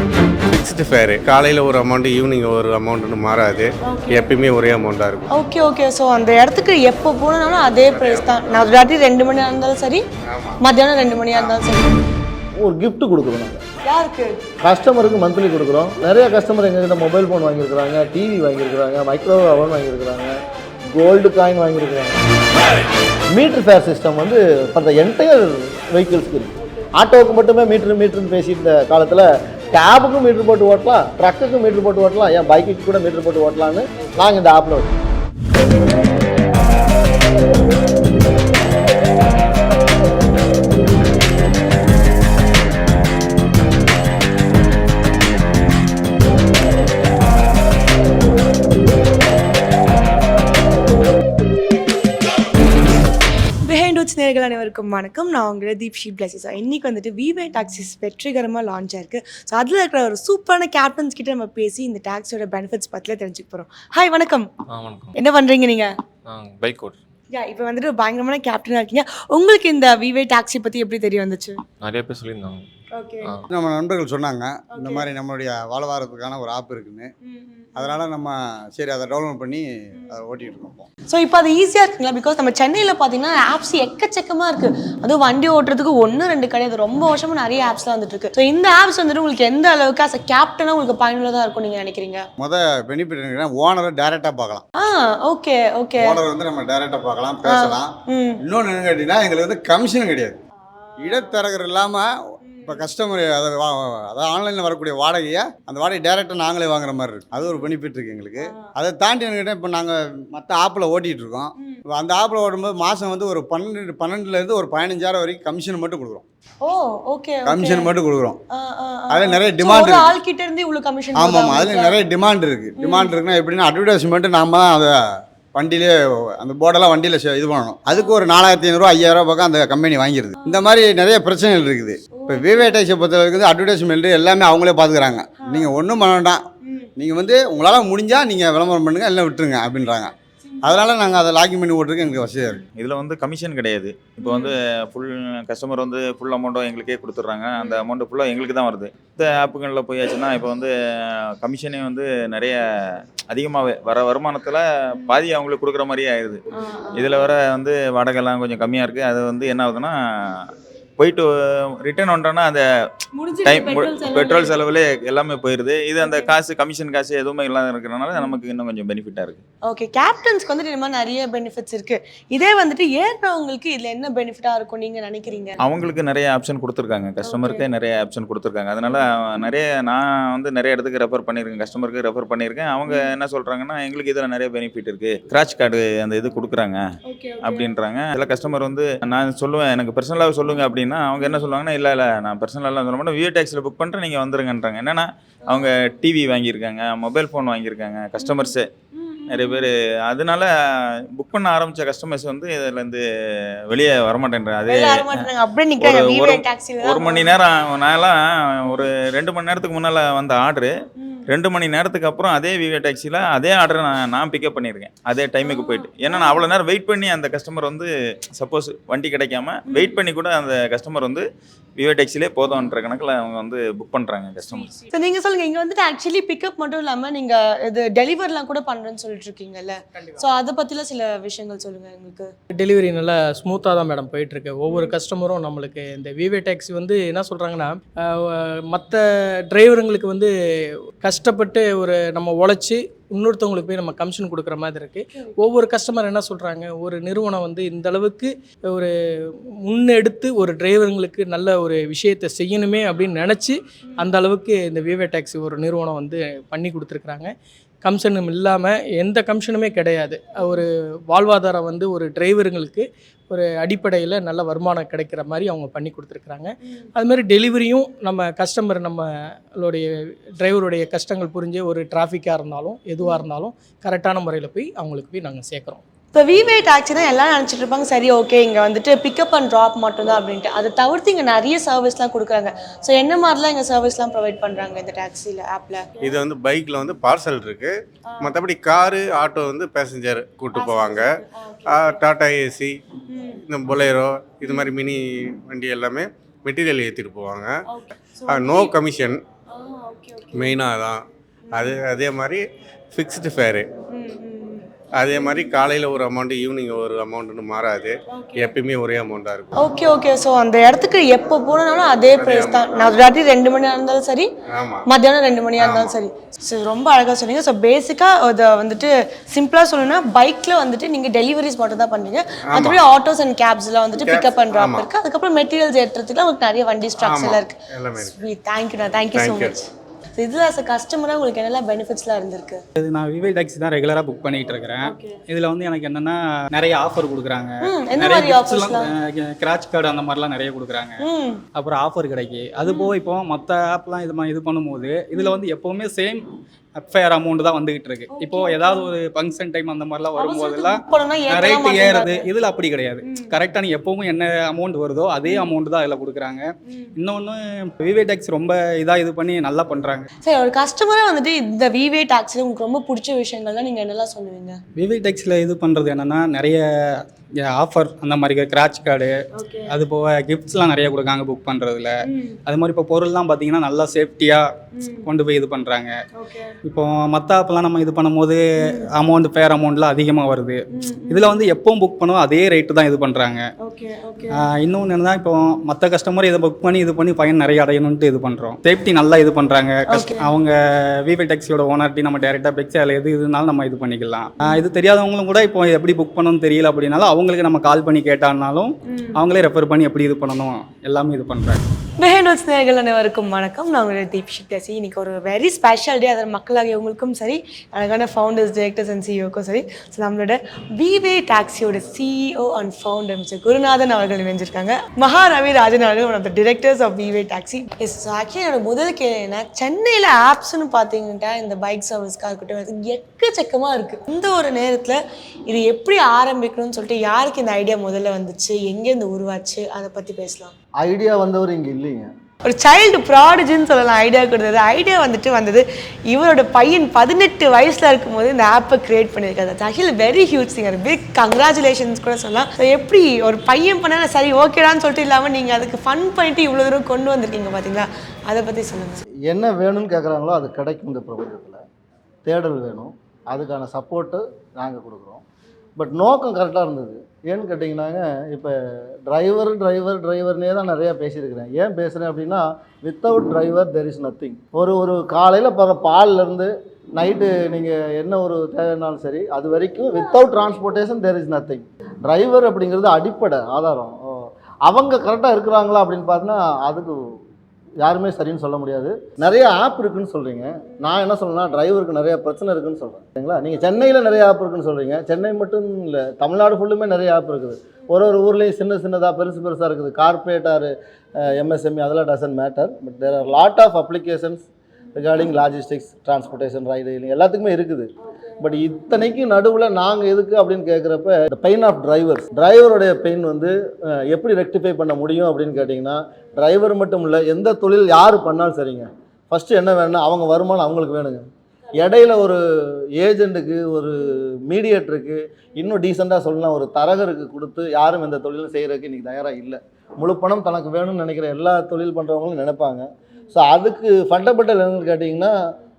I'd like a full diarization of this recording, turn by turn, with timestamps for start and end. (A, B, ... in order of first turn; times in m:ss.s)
0:00.5-0:05.3 A
0:03.8-0:04.3 B
0:05.3-0:10.0 B
0:07.7-0:08.7 A
0:10.2-0:10.6 A
0:10.6-0:12.1 B
0:11.3-0:11.6 A
0:12.6-0:13.6 C
0:13.8-0:14.4 B
0:14.6-0:22.2 C
0:23.3-0:35.0 C
0:53.6-1:04.5 B
1:04.7-1:05.1 D
1:05.1-1:05.9 B
1:06.3-1:07.0 D
1:07.3-1:11.6 B
1:11.8-1:12.6 D
1:12.9-1:13.3 B
1:13.5-1:17.1 E
1:14.8-1:15.1 B
1:17.2-1:18.0 B
1:17.8-1:20.8 E
1:21.1-1:32.3 B
1:32.4-1:34.6 E
1:34.8-1:36.2 B
1:36.0-1:40.4 E
1:37.4-1:38.4 B
1:41.0-1:42.1 E
1:42.5-1:42.8 B
1:42.6-1:56.2 E
1:56.6-1:57.9 B
1:57.4-1:58.4 E
1:58.5-2:02.0 B
1:59.1-2:00.1 E
2:01.1-2:04.9 E
2:02.8-2:03.2 B
2:05.5-2:16.4 E
2:07.9-2:08.2 B
2:12.2-2:12.8 B
2:15.4-2:15.7 B
2:16.6-2:16.9 B
2:17.0-2:22.6 E
2:20.4-2:20.9 B
2:22.7-2:32.6 F
2:24.2-2:24.5 B
2:33.3-2:36.4 F
2:36.5-2:37.3 B
2:36.9-2:41.3 F
2:41.8-2:42.6 F
2:43.1-2:44.5 B
2:43.4-2:49.4 F
2:46.0-2:46.3 B
2:49.6-2:55.6 B
2:55.6-3:06.8 F
2:57.2-2:57.7 B
3:07.0-3:07.7 B
3:07.4-3:18.7 F
3:18.9-3:19.6 B
3:19.3-3:20.5 F
3:21.1-3:23.0 F
3:23.7-3:25.3 F
3:24.7-3:27.4 B
3:25.8-3:30.7 F
3:31.0-3:31.3 B
3:31.3-3:41.2 F
3:35.4-3:36.4 B
3:39.7-3:40.0 B
3:41.8-3:44.7 F
3:44.8-3:52.3 B
3:52.5-4:00.3 G
3:54.7-3:54.9 B
4:01.0-4:08.9 G
4:09.6-4:17.3 G
4:17.8-4:35.8 G
4:20.4-4:20.6 B
4:36.1-4:46.1 B
4:46.0-4:51.1 A
4:48.1-4:48.4 B
4:50.5-4:52.0 B
4:51.6-4:52.8 A
4:53.1-4:53.4 B
4:53.4-4:57.5 A
4:57.7-4:58.7 B
4:58.3-4:59.2 A
4:59.5-5:00.5 B
5:00.3-5:03.6 A
5:01.5-5:01.8 B
5:03.9-5:04.7 B
5:05.0-5:09.5 A
5:08.1-5:08.5 B
5:09.6-5:14.3 B
5:12.2-5:13.0 A
5:14.5-5:14.9 A
5:14.9-5:32.6 B
5:15.6-5:15.9 A
5:22.5-5:22.8 A
5:24.0-5:24.9 A
5:27.0-5:28.1 A
5:29.1-5:29.5 A
5:32.8-5:41.0 H
5:34.8-5:35.2 B
5:37.6-5:38.9 B
5:41.0-5:41.4 B
5:41.6-5:56.4 H
5:42.6-5:42.9 B
5:48.1-5:48.9 B
5:50.2-5:52.3 B
5:53.0-5:53.3 B
5:55.3-5:55.5 B
5:57.0-6:00.1 H
6:00.2-6:04.6 B
6:04.8-6:09.1 H
6:09.3-6:09.7 B
6:09.7-6:14.4 H
6:12.0-6:12.4 B
6:14.7-6:15.0 B
6:15.0-6:15.9 H
6:16.2-6:16.6 B
6:16.6-6:23.4 H
6:18.6-6:18.9 B
6:20.7-6:21.4 B
6:23.6-6:24.4 B
6:24.4-6:41.6 H
6:29.9-6:30.2 B
6:38.9-6:39.1 B
6:42.0-7:10.5 B
7:10.8-7:12.1 C
7:12.4-7:29.0 B
7:29.2-7:31.6 C
7:32.2-7:35.2 C
7:35.8-7:57.2 C
7:57.8-8:32.4 C
8:18.1-8:18.5 B
8:32.9-8:45.4 C